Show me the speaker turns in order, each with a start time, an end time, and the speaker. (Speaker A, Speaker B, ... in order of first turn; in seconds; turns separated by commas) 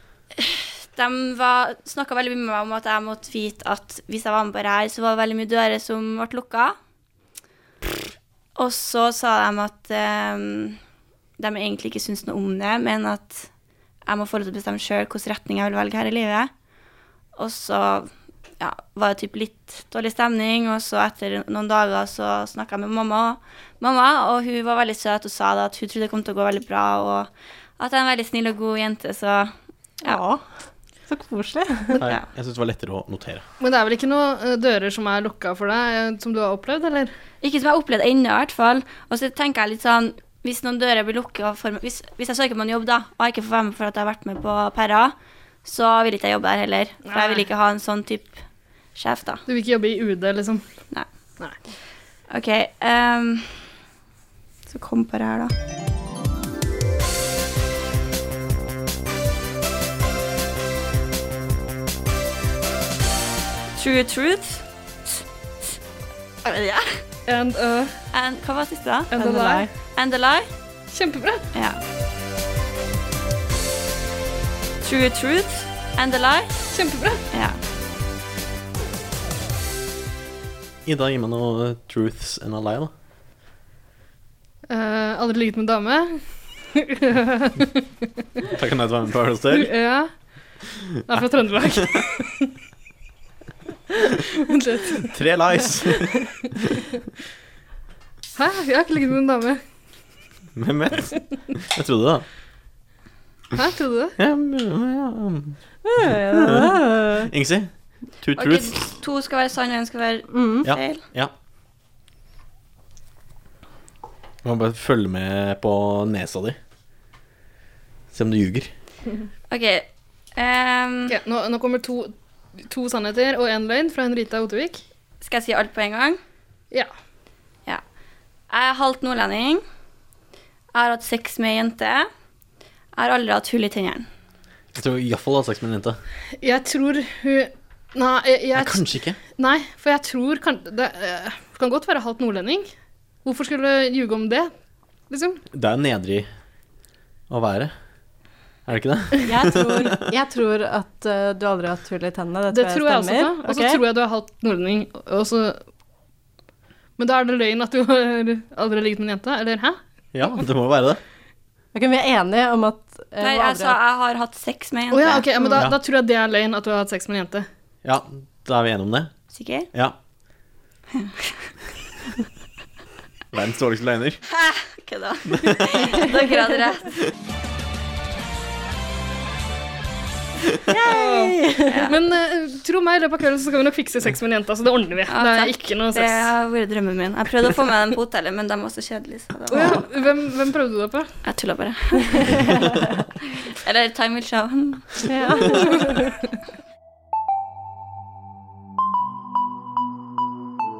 Speaker A: 0.4-6.7, Speaker A: 8.6-10.8, Speaker A: 11.4-13.5, Speaker A: 14.1-16.5, Speaker A: 17.4-30.2, Speaker B: 30.0-30.4, Speaker B: 31.1-32.0, Speaker C: 32.0-33.4, Speaker D: 33.6-37.1, Speaker A: 37.4-48.4, Speaker D: 47.0-47.4, Speaker A: 48.9-49.4, Speaker D: 49.5-50.6, Speaker A: 52.3-53.7, Speaker A: 54.7-55.5, Speaker A: 63.8-64.7, Speaker A: 66.4-67.0, Speaker D: 67.3-68.0, Speaker A: 68.1-69.1, Speaker D: 69.1-69.7, Speaker B: 69.2-69.7, Speaker A: 69.9-70.5, Speaker D: 70.9-71.4, Speaker A: 71.5-71.8, Speaker A: 74.8-76.7, Speaker D: 76.7-77.2, Speaker A: 77.3-77.6, Speaker C: 80.8-82.9, Speaker D: 84.7-87.8, Speaker C: 88.5-89.7, Speaker D: 89.5-90.1, Speaker D: 91.0-92.5, Speaker D: 94.4-95.1, Speaker C: 95.1-96.8, Speaker D: 98.3-99.6, Speaker C: 100.5-102.2, Speaker D: 103.5-104.2, Speaker C: 104.2-109.0, Speaker B: 105.8-107.3, Speaker A: 108.3-111.0, Speaker B: 110.3-110.7, Speaker C: 110.6-111.3, Speaker C: 114.4-116.6, Speaker C: 118.1-118.7, Speaker A: 119.5-121.2, Speaker D: 121.1-122.1, Speaker D: 122.7-124.8, Speaker A: 125.2-126.2, Speaker A: 128.5-129.6, Speaker A: 130.7-132.1, Speaker A: 132.9-134.1, Speaker C: 134.7-136.0, Speaker D: 136.4-142.7, Speaker C: 138.5-139.2, Speaker D: 143.2-144.5, Speaker D: 145.1-145.4, Speaker C: 145.5-146.3, Speaker C: 147.3-147.7, Speaker C: 148.7-150.0, Speaker B: 149.2-153.8, Speaker D: 152.5-155.6, Speaker D: 157.0-159.8, Speaker C: 160.1-161.0, Speaker B: 161.7-163.8, Speaker A: 163.2-165.2, Speaker D: 164.9-167.5, Speaker C: 167.8-169.1, Speaker A: 169.3-169.7, Speaker A: 170.9-171.5, Speaker C: 173.3-174.2, Speaker A: 174.3-177.0, Speaker C: 175.3-176.1, Speaker B: 180.7-181.9, Speaker D: 180.8-186.3, Speaker A: 181.7-181.9, Speaker A: 185.1-189.8, Speaker D: 189.5-191.1, Speaker A: 191.2-192.4, Speaker A: 193.4-195.0, Speaker B: 195.1-196.0